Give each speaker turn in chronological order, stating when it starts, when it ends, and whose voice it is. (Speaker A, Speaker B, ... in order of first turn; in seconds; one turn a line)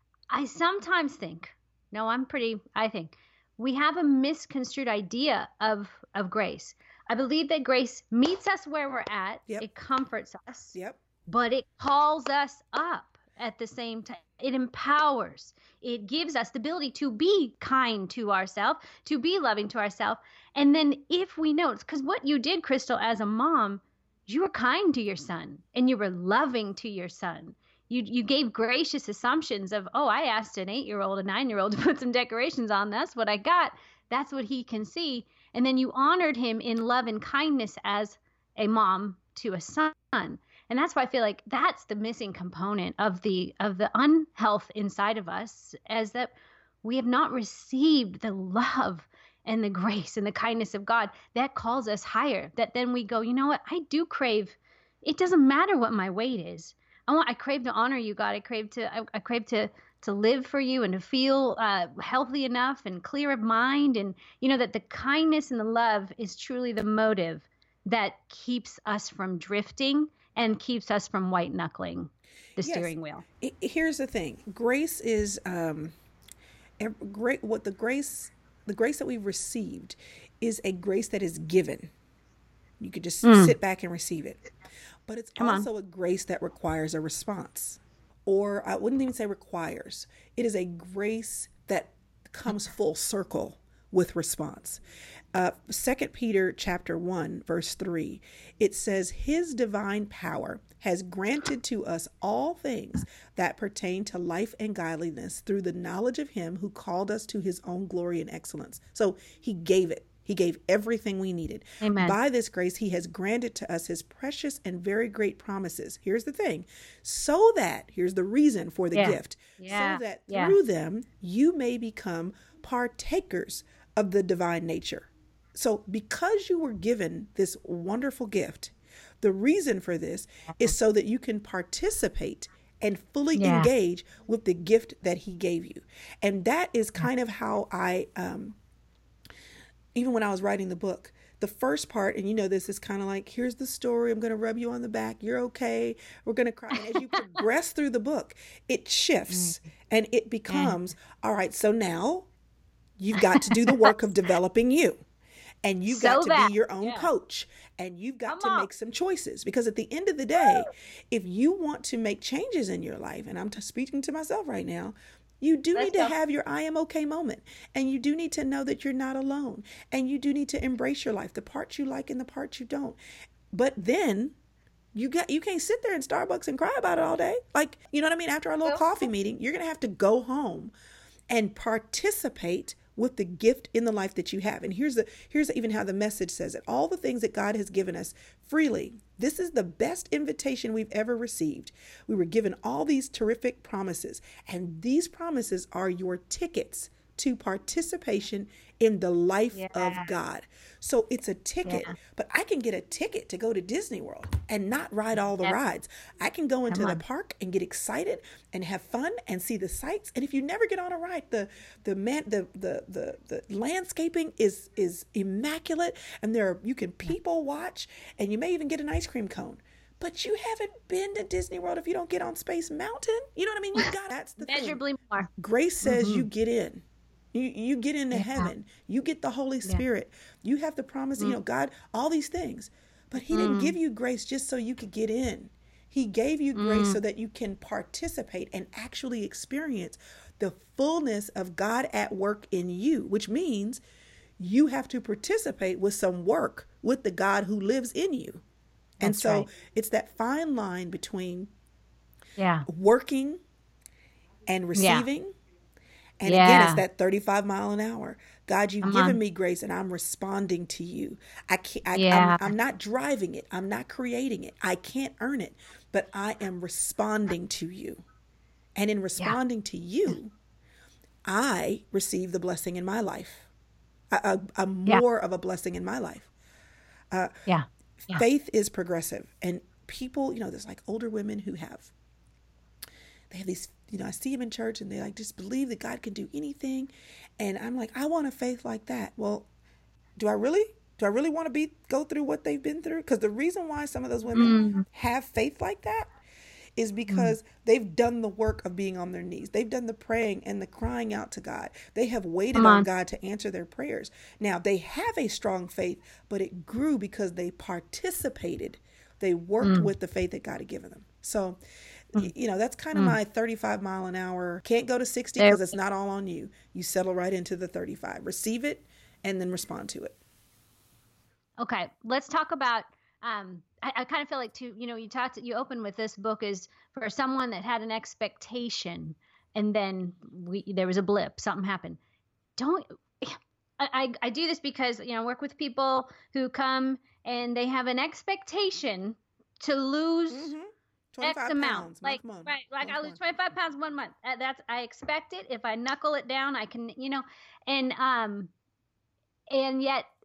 Speaker A: 0.3-10.8
Speaker A: 11.3-73.2
Speaker B: 72.6-75.9
Speaker B: 76.8-81.9
Speaker B: 82.8-84.4
Speaker A: 83.2-83.5
Speaker B: 85.1-94.8
Speaker A: 85.4-85.7
Speaker B: 95.3-138.6
Speaker A: 111.8-112.2
Speaker A: 118.9-120.5
Speaker A: 133.4-133.7
Speaker B: 139.9-152.3
Speaker A: 147.1-147.4
Speaker A: 150.5-150.8
Speaker B: 153.0-155.0
Speaker A: 153.3-153.9
Speaker B: 155.6-173.0
Speaker A: 155.9-157.1
Speaker A: 158.3-158.7
Speaker A: 165.8-166.1
Speaker B: 173.5-174.4
Speaker B: 174.9-180.7
Speaker B: 181.3-224.8
Speaker A: 199.5-200.1
Speaker A: 201.7-201.9
Speaker A: 206.7-207.0
Speaker A: 224.4-225.3
Speaker B: 225.4-243.8
Speaker A: 225.8-226.3
Speaker A: 228.1-228.5
Speaker A: 233.3-233.8
Speaker A: 236.6-237.0
Speaker B: 244.4-248.4
Speaker B: 249.0-251.5
Speaker A: 249.0-249.5
Speaker A: 252.4-252.7
Speaker B: 252.7-253.4
Speaker B: 254.5-255.3
Speaker A: 254.8-255.1
Speaker B: 256.2-268.0
Speaker A: 256.3-256.8
Speaker A: 258.8-259.2
Speaker A: 261.9-262.5
Speaker B: 268.8-270.4
Speaker B: 271.3-273.5
Speaker B: 274.1-276.3
Speaker A: 277.5-278.2
Speaker B: 278.1-281.9
Speaker B: 283.3-289.5
Speaker B: 290.2-296.1
Speaker A: 294.4-294.9
Speaker B: 296.8-311.6
Speaker A: 297.1-297.3
Speaker A: 302.6-302.9
Speaker A: 309.6-309.9
Speaker B: 312.1-320.1
Speaker A: 315.4-315.7
Speaker A: 321.6-332.0
Speaker A: 332.6-340.5
Speaker B: 340.3-343.2
Speaker A: 341.2-348.5
Speaker A: 349.5-350.1